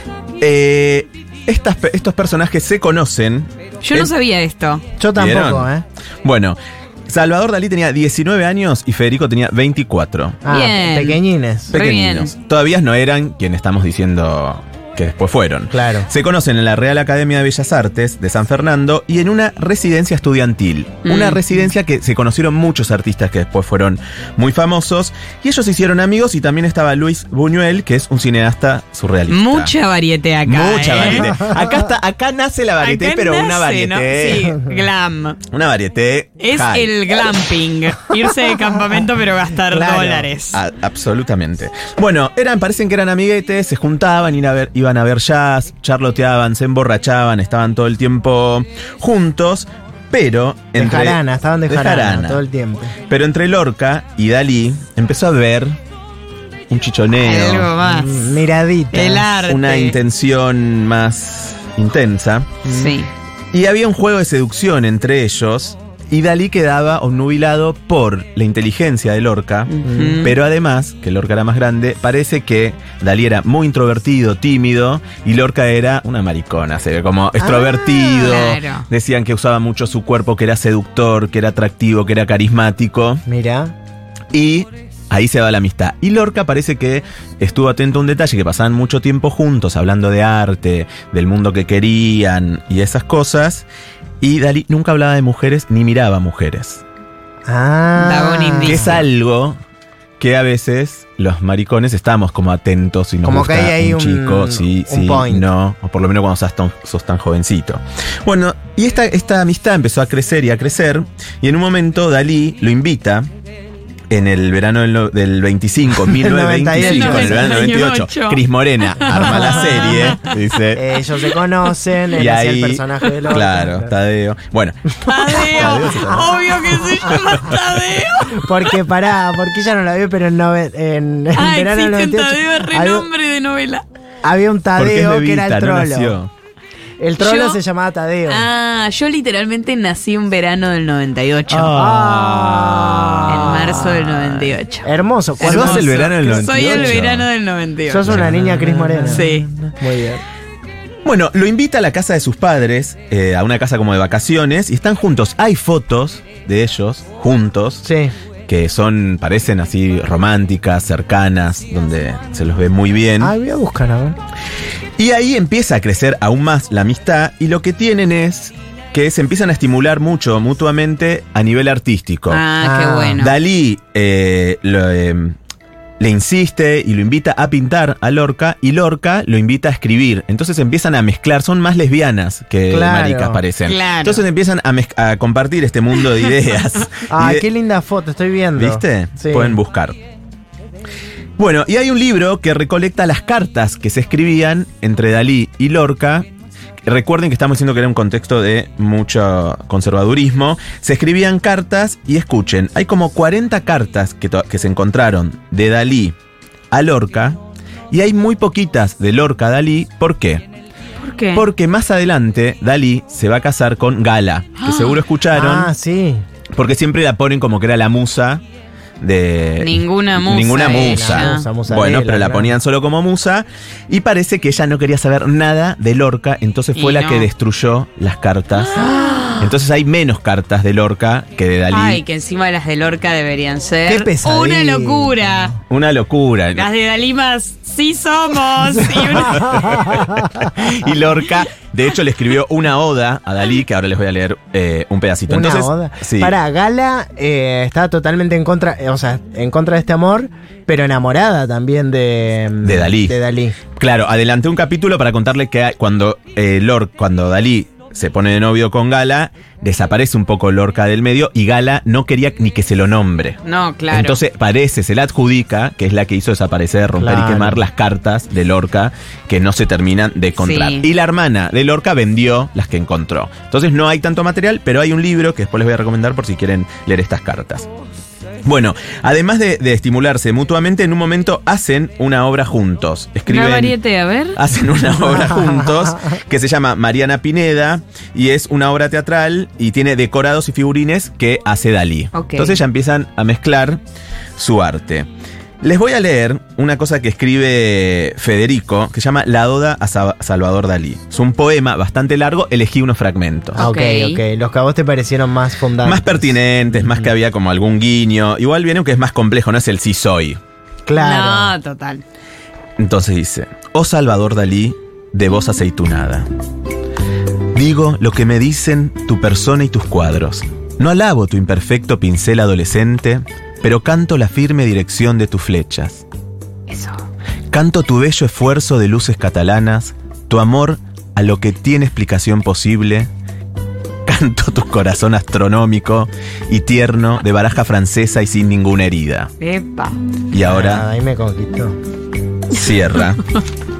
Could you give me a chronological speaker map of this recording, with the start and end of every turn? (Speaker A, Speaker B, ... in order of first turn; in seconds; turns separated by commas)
Speaker A: 0.4-4.1, Speaker B: 3.8-4.8, Speaker C: 5.0-5.8, Speaker A: 5.1-10.4, Speaker C: 10.4-11.7, Speaker B: 10.5-12.3, Speaker A: 11.7-29.7, Speaker C: 15.7-16.1, Speaker B: 21.0-21.4, Speaker B: 29.3-31.4, Speaker A: 30.4-34.5, Speaker B: 32.8-35.4, Speaker A: 35.5-37.2, Speaker B: 36.4-40.6, Speaker C: 39.7-40.3, Speaker A: 40.5-52.4, Speaker C: 50.8-52.9, Speaker A: 53.1-55.8, Speaker A: 56.7-57.7, Speaker B: 57.2-58.4, Speaker C: 57.8-59.3, Speaker B: 58.9-60.0, Speaker A: 59.4-62.5, Speaker C: 62.7-62.9, Speaker B: 62.7-63.1, Speaker A: 63.5-83.2, Speaker B: 69.7-70.3, Speaker C: 69.8-70.3, Speaker B: 77.9-78.8, Speaker C: 83.2-83.7, Speaker A: 84.3-93.7, Speaker A: 94.2-96.8, Speaker C: 97.5-99.0, Speaker B: 98.0-98.9, Speaker A: 98.6-99.6, Speaker A: 100.2-113.3, Speaker C: 103.2-105.5, Speaker A: 114.1-120.8, Speaker C: 116.1-117.5, Speaker B: 116.8-118.4, Speaker B: 118.9-120.4, Speaker C: 119.1-120.2, Speaker C: 120.7-123.9, Speaker A: 122.1-124.8, Speaker C: 125.0-127.2, Speaker B: 125.0-128.7, Speaker A: 125.4-126.4, Speaker C: 128.3-133.1, Speaker B: 131.3-133.8, Speaker C: 134.2-136.2, Speaker A: 134.8-136.3, Speaker C: 137.0-138.4, Speaker B: 137.2-137.6, Speaker B: 138.2-148.5, Speaker C: 141.5-143.9, Speaker A: 141.5-142.3, Speaker C: 144.8-147.0, Speaker A: 145.4-147.3, Speaker C: 147.9-150.2, Speaker A: 148.1-149.2, Speaker B: 149.0-149.5, Speaker A: 151.0-157.8, Speaker C: 157.8-158.1, Speaker A: 158.5-163.3, Speaker C: 163.2-164.2, Speaker A: 165.0-172.4, Speaker B: 172.3-173.4, Speaker C: 172.6-173.2, Speaker A: 173.2-175.3, Speaker A: 176.0-187.5, Speaker C: 182.7-183.4, Speaker B: 183.6-184.2, Speaker C: 187.1-189.6, Speaker A: 188.6-190.0, Speaker A: 191.4-196.2, Speaker A: 196.8-206.1, Speaker A: 206.7-207.4, Speaker A: 207.9-210.4, Speaker B: 211.0-211.4, Speaker A: 211.3-215.7, Speaker B: 214.6-215.0, Speaker C: 215.3-216.2, Speaker A: 216.5-218.4, Speaker A: 219.0-232.0, Speaker B: 219.6-221.5, Speaker C: 220.6-222.6, Speaker B: 226.8-227.3, Speaker B: 228.6-229.5, Speaker B: 231.7-235.5, Speaker C: 233.8-235.5, Speaker A: 235.7-236.7, Speaker B: 236.5-240.0, Speaker A: 239.2-246.3, Speaker C: 239.3-240.2, Speaker C: 245.3-253.6, Speaker A: 252.6-253.2, Speaker A: 253.8-263.4, Speaker B: 263.4-264.2, Speaker A: 263.9-277.7, Speaker C: 266.9-267.6, Speaker B: 270.4-270.9, Speaker A: 278.4-283.8, Speaker B: 283.3-284.4, Speaker A: 284.3-293.8, Speaker B: 292.1-292.6, Speaker A: 294.4-295.1, Speaker A: 295.6-303.6, Speaker C: 303.5-307.1, Speaker B: 303.6-304.2, Speaker A: 305.8-310.4, Speaker C: 310.9-311.5, Speaker B: 311.0-312.0, Speaker A: 312.8-316.3, Speaker A: 317.5-326.0, Speaker B: 326.7-327.0, Speaker A: 327.5-333.1, Speaker A: 334.1-339.3, Speaker B: 339.4-340.0, Speaker A: 340.3-340.8, Speaker C: 340.4-341.8, Speaker A: 342.5-343.2